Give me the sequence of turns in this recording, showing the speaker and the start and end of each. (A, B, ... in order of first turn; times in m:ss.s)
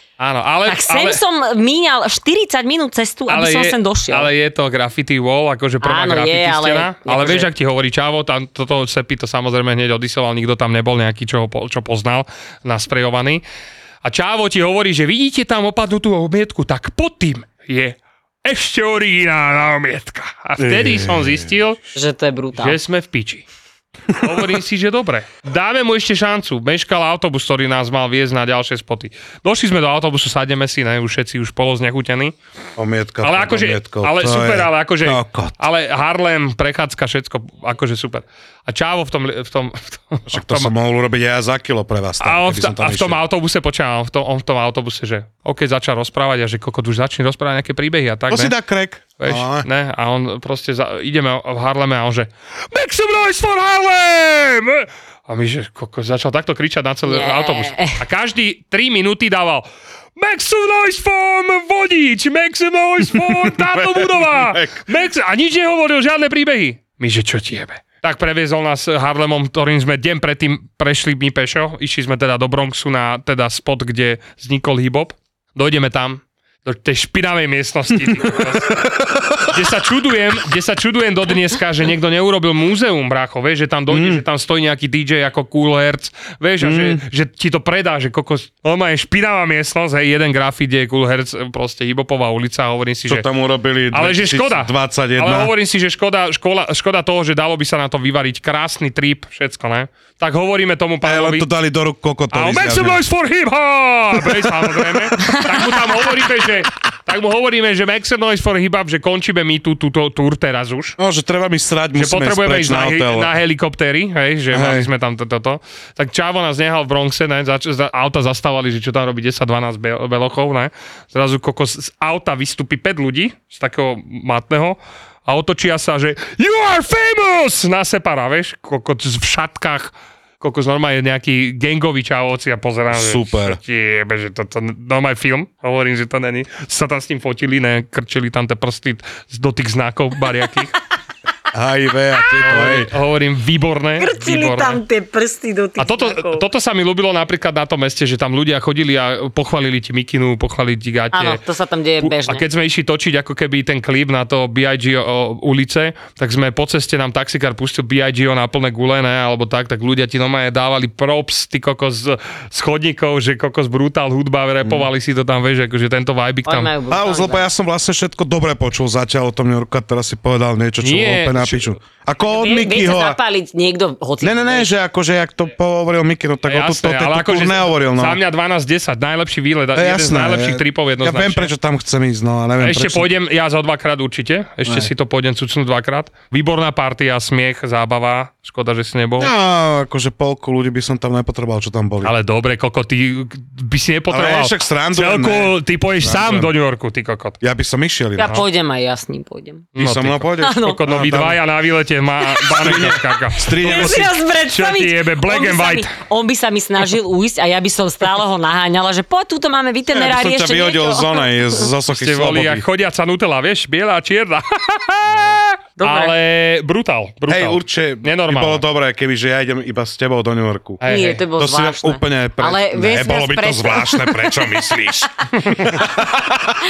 0:00.2-0:01.2 A
0:00.7-0:04.3 B
0:03.3-0:13.4 A
0:05.8-0:07.5 B
0:14.0-0:21.8 A
0:20.6-0:21.6 C
0:22.0-0:22.8 B
0:22.6-0:23.5 A
0:24.1-0:32.3 A
0:32.8-0:35.6 C
0:33.2-0:40.7 A
0:40.3-0:43.2 C
0:42.2-0:48.5 A
0:48.3-0:49.7 C
0:49.2-0:59.7 A
0:57.1-0:58.0 B
1:00.2-1:18.8 A
1:03.2-1:04.8 C
1:18.8-1:19.5 C
1:19.4-1:33.3 A
1:23.9-1:24.2 C
1:26.6-1:27.0 C
1:33.1-1:35.5 C
1:33.9-1:41.5 A
1:41.0-1:43.0 C
1:42.3-1:51.0 A
1:44.2-1:45.1 C
1:51.0-1:53.3 C
1:52.0-2:20.7 A
1:54.5-1:54.9 C
2:12.9-2:13.6 C
2:21.5-2:22.9 C
2:22.4-2:24.8 A
2:24.0-2:26.4 B
2:25.8-2:31.4 A
2:31.1-2:32.4 B
2:32.0-2:46.7 A
2:46.5-2:47.4 B
2:46.9-2:53.2 C
2:50.8-2:51.7 A
2:52.2-2:54.7 B
2:54.2-2:58.2 C
2:56.4-3:01.5 A
2:59.8-3:03.1 C
3:02.6-3:09.3 A
3:04.7-3:04.9 C
3:09.2-3:12.1 C
3:12.0-3:17.4 A
3:14.1-3:16.5 C
3:17.4-3:18.4 C
3:18.2-3:19.7 B
3:19.8-3:25.9 A
3:19.8-3:21.4 C
3:20.4-3:20.8 B
3:22.6-3:24.1 C
3:23.6-3:31.6 B
3:29.9-3:32.6 C
3:31.9-3:38.6 A
3:35.8-3:36.2 B
3:37.3-3:40.8 C
3:40.8-3:41.2 A
3:40.9-3:44.4 B
3:41.4-3:46.6 C
3:45.4-3:45.8 A